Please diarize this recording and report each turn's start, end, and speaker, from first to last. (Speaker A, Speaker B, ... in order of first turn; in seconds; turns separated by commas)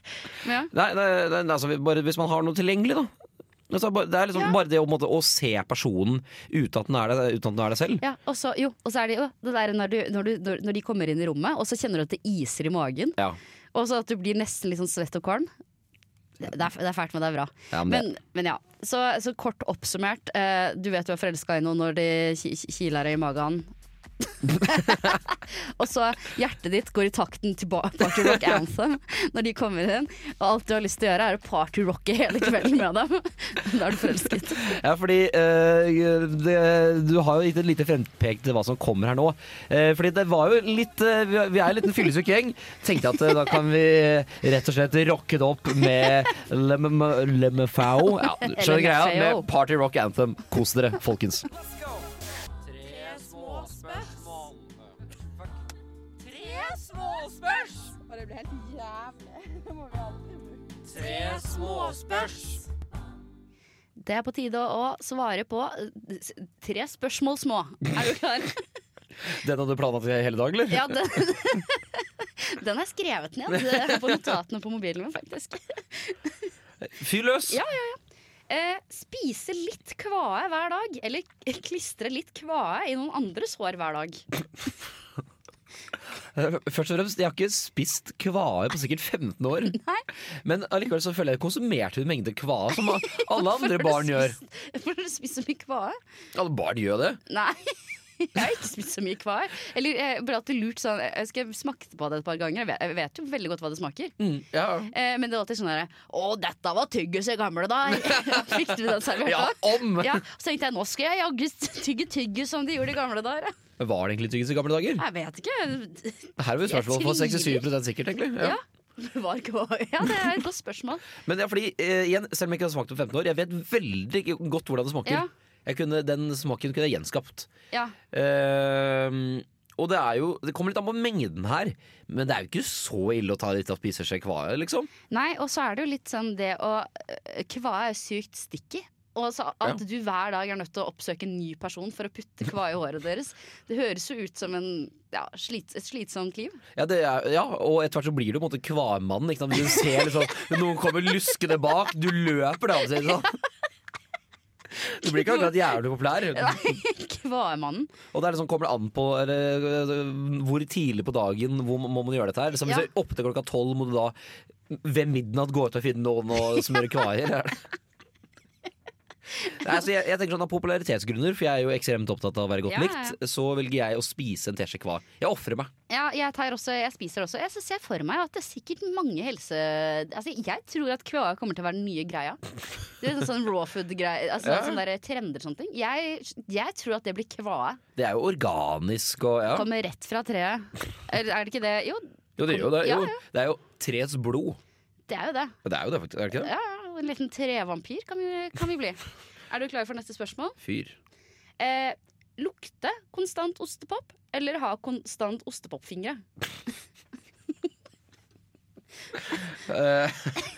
Speaker A: 0.4-0.7, Speaker B: 0.7-3.1, Speaker B: 3.7-8.0, Speaker A: 8.0-13.2, Speaker A: 13.7-15.5, Speaker A: 16.4-34.7, Speaker B: 17.7-18.1, Speaker B: 34.6-51.5, Speaker A: 48.4-49.5, Speaker B: 52.6-54.9, Speaker B: 56.2-58.0, Speaker B: 60.9-62.6, Speaker A: 64.0-68.6, Speaker B: 69.2-71.0, Speaker A: 70.7-76.5, Speaker B: 73.5-74.1, Speaker B: 76.8-77.6, Speaker A: 77.5-84.2, Speaker B: 86.3-89.8, Speaker A: 89.7-90.0, Speaker B: 90.4-94.3, Speaker A: 93.0-96.0, Speaker B: 96.3-97.2, Speaker A: 97.3-104.1, Speaker B: 104.2-104.9, Speaker A: 104.9-113.5, Speaker B: 107.9-110.2, Speaker B: 113.8-115.0, Speaker A: 115.0-117.6, Speaker B: 116.4-118.5, Speaker A: 118.4-121.0, Speaker B: 121.2-127.5, Speaker B: 128.1-134.9, Speaker A: 135.1-146.6, Speaker B: 146.8-153.3, Speaker B: 154.8-156.8, Speaker A: 155.0-155.5, Speaker A: 156.3-157.9, Speaker B: 158.1-164.1, Speaker B: 164.7-167.6, Speaker B: 169.6-175.7, Speaker A: 172.7-173.2, Speaker A: 175.9-187.8, Speaker B: 184.4-184.8, Speaker B: 188.0-189.7, Speaker A: 189.5-193.2, Speaker B: 192.4-194.6, Speaker A: 195.1-195.6, Speaker B: 195.6-196.5, Speaker A: 196.3-200.6, Speaker B: 200.6-200.9, Speaker A: 201.6-206.2, Speaker B: 209.6-210.4